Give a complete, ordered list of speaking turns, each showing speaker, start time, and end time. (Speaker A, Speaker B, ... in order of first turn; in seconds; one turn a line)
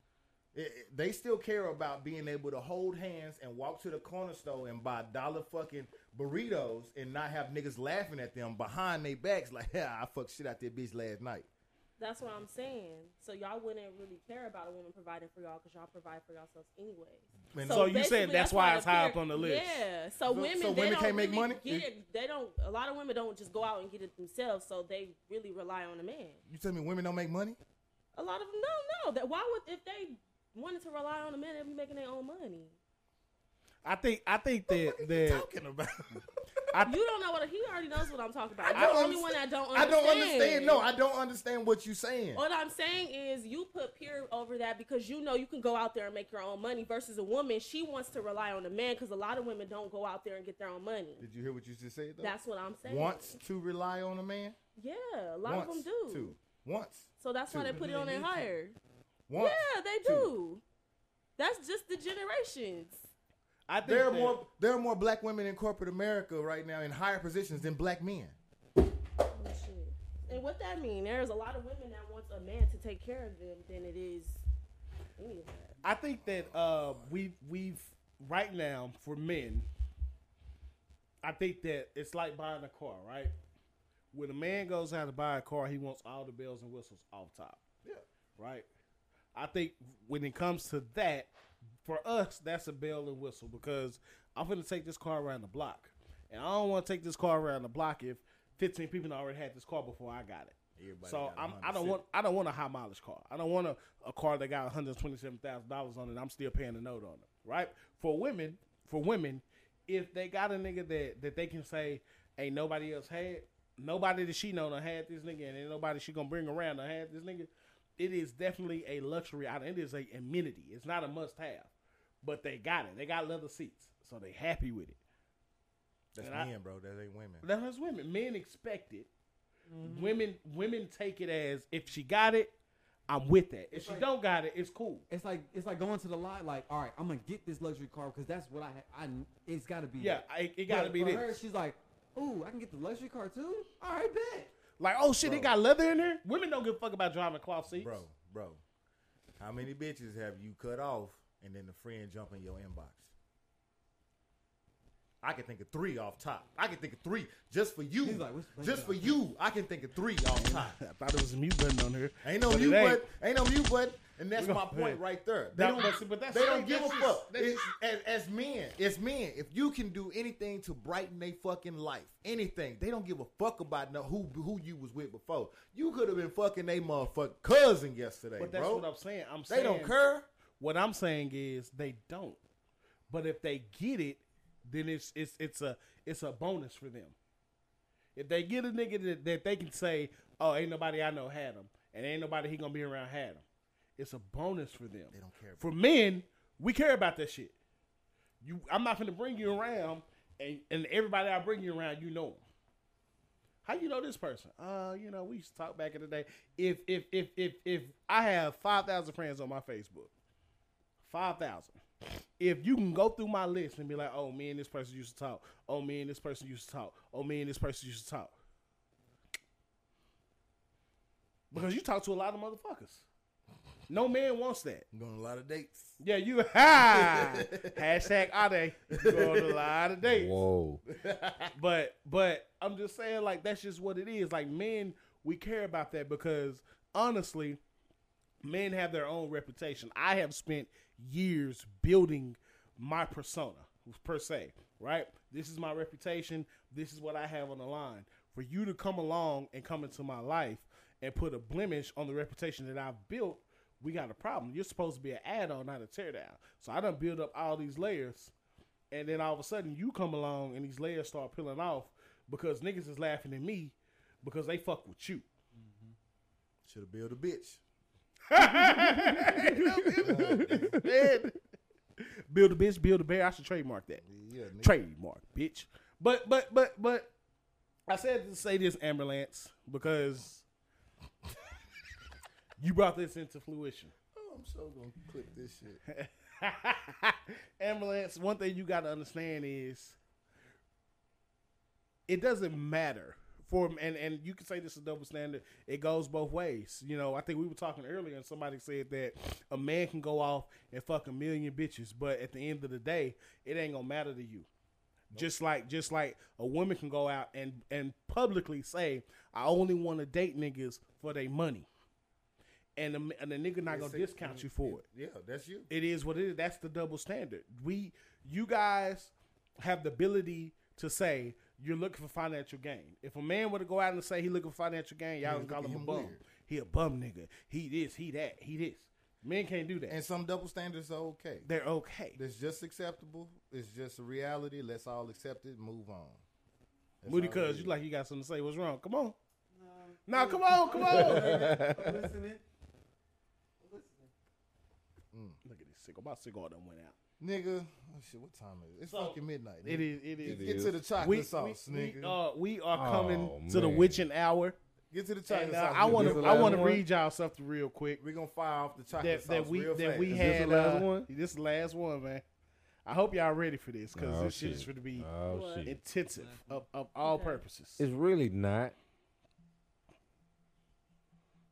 Speaker A: 0.5-11.5
Speaker B: 12.0-26.4
Speaker A: 17.5-17.9
Speaker C: 17.7-19.9
Speaker A: 20.3-21.9
Speaker A: 26.5-27.6
Speaker B: 28.1-32.8
Speaker C: 33.9-35.5
Speaker A: 34.7-36.3
Speaker B: 36.8-40.9
Speaker A: 38.6-42.4
Speaker C: 38.7-39.0
Speaker B: 42.4-51.3
Speaker A: 51.2-54.6
Speaker B: 52.2-53.4
Speaker B: 54.8-56.4
Speaker A: 55.5-58.5
Speaker B: 57.2-58.8
Speaker A: 59.3-60.3
Speaker B: 59.4-60.6
Speaker B: 61.4-63.1
Speaker C: 63.7-64.4
Speaker A: 63.8-68.4
Speaker B: 69.3-74.5
Speaker B: 75.2-75.8
Speaker C: 75.8-79.7
Speaker A: 76.2-77.2
Speaker C: 81.2-83.3
Speaker C: 84.1-87.6
Speaker C: 88.4-88.7
Speaker C: 89.3-91.3
Speaker C: 91.8-121.7
Speaker A: 100.8-102.0
Speaker C: 122.2-125.0
Speaker A: 126.2-127.5
Speaker C: 126.2-126.5
Speaker C: 127.4-129.1
Speaker D: 129.7-130.2
Speaker C: 129.8-132.5
Speaker C: 133.1-135.1
Speaker D: 133.7-134.1
Speaker D: 135.1-144.5
Speaker C: 140.0-141.4
Speaker C: 144.8-148.0
Speaker A: 145.2-145.5
Speaker A: 147.7-148.6
Speaker A: 149.4-153.1
Speaker A: 155.2-160.8
Speaker D: 158.0-159.2
Speaker C: 160.3-163.0
Speaker A: 162.2-178.9
Speaker C: 164.4-165.0
Speaker C: 165.5-167.7
Speaker C: 178.4-180.0
Speaker A: 179.5-180.3
Speaker C: 180.6-182.4
Speaker C: 183.1-187.1
Speaker C: 188.2-193.4
Speaker C: 194.0-197.6
Speaker A: 195.1-195.7
Speaker C: 198.4-202.4
Speaker C: 203.6-210.1
Speaker C: 211.0-211.8
Speaker C: 212.4-218.3
Speaker C: 221.5-223.1
Speaker C: 223.9-224.9
Speaker A: 224.9-226.0
Speaker C: 226.0-230.4
Speaker A: 226.8-227.9
Speaker A: 228.9-229.7
Speaker E: 230.0-230.8
Speaker A: 230.9-231.5
Speaker C: 231.6-237.6
Speaker C: 238.4-258.3
Speaker C: 258.9-265.3
Speaker D: 265.5-265.9
Speaker A: 266.6-267.6
Speaker C: 268.3-271.4
Speaker E: 269.0-271.0
Speaker A: 270.0-270.8
Speaker C: 272.0-274.0
Speaker A: 274.0-274.8
Speaker C: 274.6-277.1
Speaker C: 277.9-280.4
Speaker C: 282.6-283.9
Speaker A: 284.1-285.8
Speaker C: 285.9-290.0
Speaker C: 292.1-304.5
Speaker C: 305.1-311.7
Speaker C: 312.8-314.8
Speaker A: 313.7-315.7
Speaker C: 315.7-330.0
Speaker A: 325.2-326.2
Speaker A: 329.9-331.5
Speaker C: 331.4-332.2
Speaker A: 332.1-336.2
Speaker A: 337.0-337.8
Speaker C: 337.1-339.2
Speaker D: 339.5-342.4
Speaker C: 340.1-341.5
Speaker E: 340.9-342.1
Speaker D: 343.6-344.1
Speaker A: 345.1-345.4
Speaker C: 345.4-346.9
Speaker A: 347.2-352.2
Speaker C: 348.9-354.6
Speaker E: 350.2-350.8
Speaker E: 352.7-354.1
Speaker A: 354.9-356.8
Speaker C: 355.3-358.0
Speaker E: 355.8-356.8
Speaker A: 358.0-360.3
Speaker C: 359.0-362.2
Speaker E: 360.1-361.1
Speaker C: 362.9-365.1
Speaker E: 363.9-365.8
Speaker B: 365.3-365.7
Speaker C: 365.6-367.9
Speaker D: 366.1-366.6
Speaker B: 367.0-367.4
Speaker E: 367.8-368.8